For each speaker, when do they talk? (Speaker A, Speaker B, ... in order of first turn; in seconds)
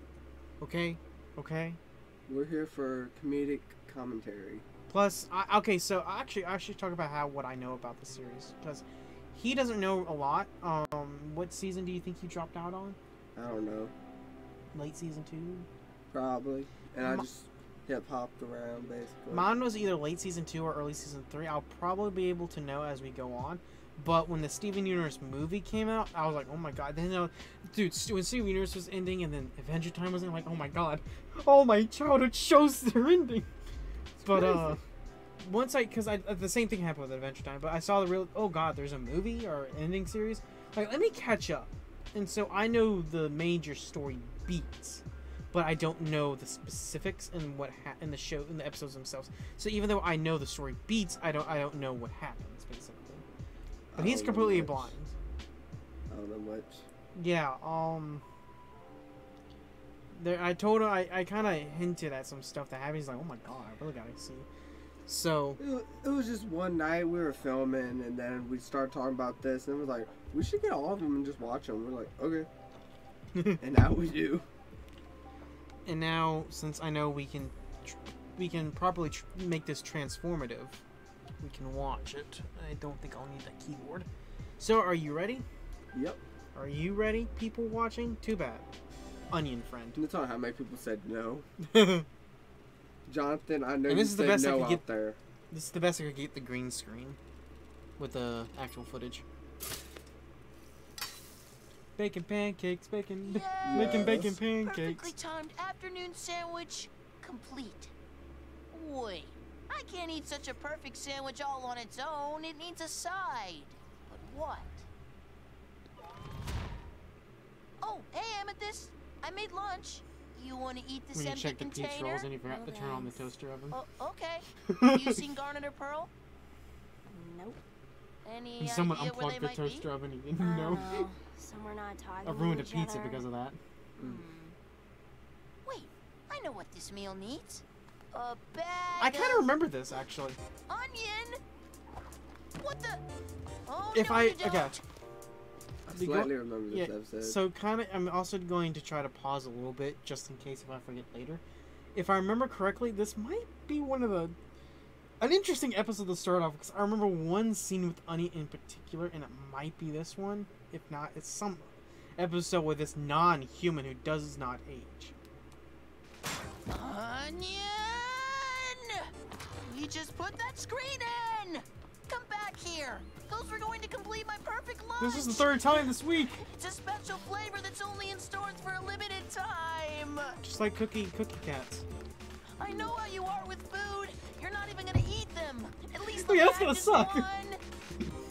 Speaker A: 0.6-1.8, 4.9-13.0, 14.7-15.7, 19.3-33.5, 34.2-34.8, 35.4-53.2, 54.0-55.1, 57.1-58.2, 60.1-64.5, 65.1-65.6, 75.8-80.8, 81.4-84.1, 84.6-85.4, 86.5-88.7, 89.3-90.0, 91.6-92.0, 93.9-94.8, 95.5-97.2, 98.0-99.2, 102.0-105.1, 121.1-123.8, 124.7-125.2, 128.6-131.0, 132.2-133.6, 139.0-140.4, 143.9-144.8, 145.9-151.4, 151.9-154.3, 155.2-165.1, 175.0-176.4, 180.4-181.8, 186.1-187.3
Speaker B: 2.3-4.6, 13.3-13.9, 16.1-19.6, 34.2-34.8, 53.9-54.9, 56.1-56.8, 65.6-72.5, 73.6-74.5, 85.9-86.2, 89.9-91.5, 93.1-95.2, 103.6-104.3, 134.0-134.2, 145.9-147.4
Speaker C: 103.2-107.9, 108.7-114.8, 117.8-122.3, 123.7-126.1, 128.2-129.9, 134.0-134.6, 135.6-139.5, 140.7-141.4, 142.6-143.0, 143.7-144.8, 166.7-169.1, 169.6-180.4, 182.6-187.6
Speaker D: 122.4-123.3, 127.1-127.6, 130.4-133.2